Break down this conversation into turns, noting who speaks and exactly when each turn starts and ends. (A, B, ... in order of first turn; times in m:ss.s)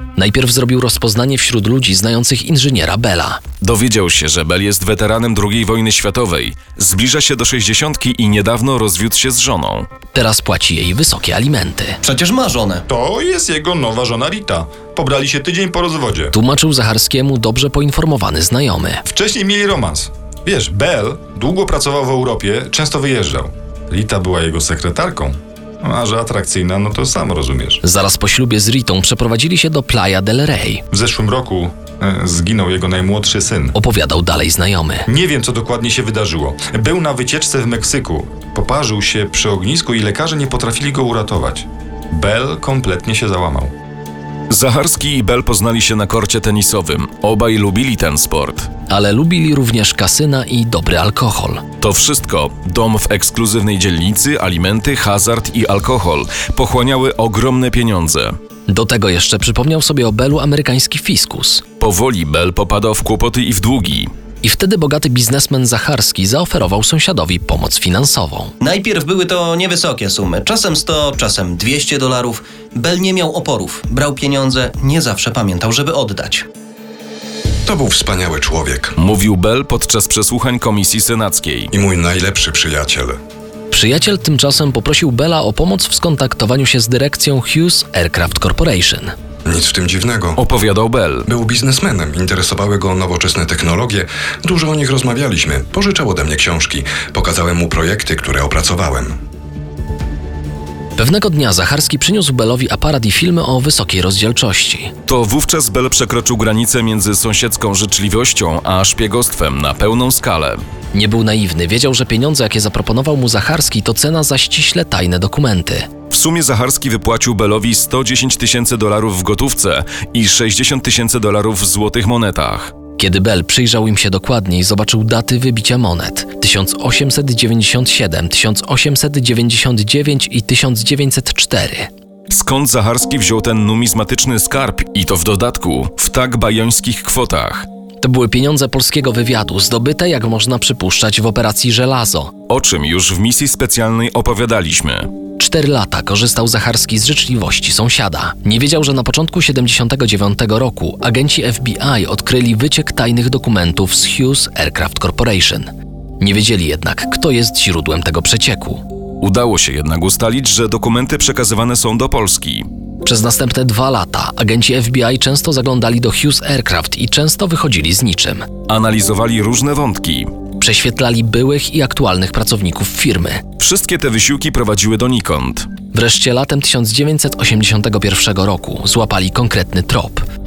0:00.2-0:03.4 A
0:03.6-0:09.9 B
0:10.1-0:12.0 A
0:12.0-0:12.8 C
0:12.9-0:16.3 D
0:16.3-0:19.0 A
0:19.0-0:27.8 D
0:27.8-0:30.8 A
0:30.9-0:33.7 D
0:33.7-0:35.1 A
0:35.1-0:43.7 D
0:44.5-0:48.7 B
0:48.9-0:51.6 A
0:51.8-0:58.3 B
0:58.7-1:01.6 A
1:01.8-1:04.1 B
1:04.4-1:08.5 A
1:08.6-1:16.4 C
1:17.6-1:19.0 E
1:19.0-1:21.7 B
1:21.7-1:23.2 E
1:23.7-1:29.1 A
1:29.4-1:30.4 E
1:30.4-1:31.3 B
1:31.2-1:39.2 E
1:41.0-1:44.9 A
1:45.0-1:50.6 B
1:50.9-1:55.9 A
1:56.1-2:02.7 B
2:03.0-2:11.9 A
2:12.3-2:17.6 B
2:18.0-2:22.3 A
2:22.5-2:25.1 B
2:25.4-2:38.8 A
2:39.2-2:42.7 B
2:43.0-2:48.5 A
2:48.7-2:50.3 B
2:50.6-2:53.4 A
2:53.6-2:55.7 B
2:55.9-3:00.2 A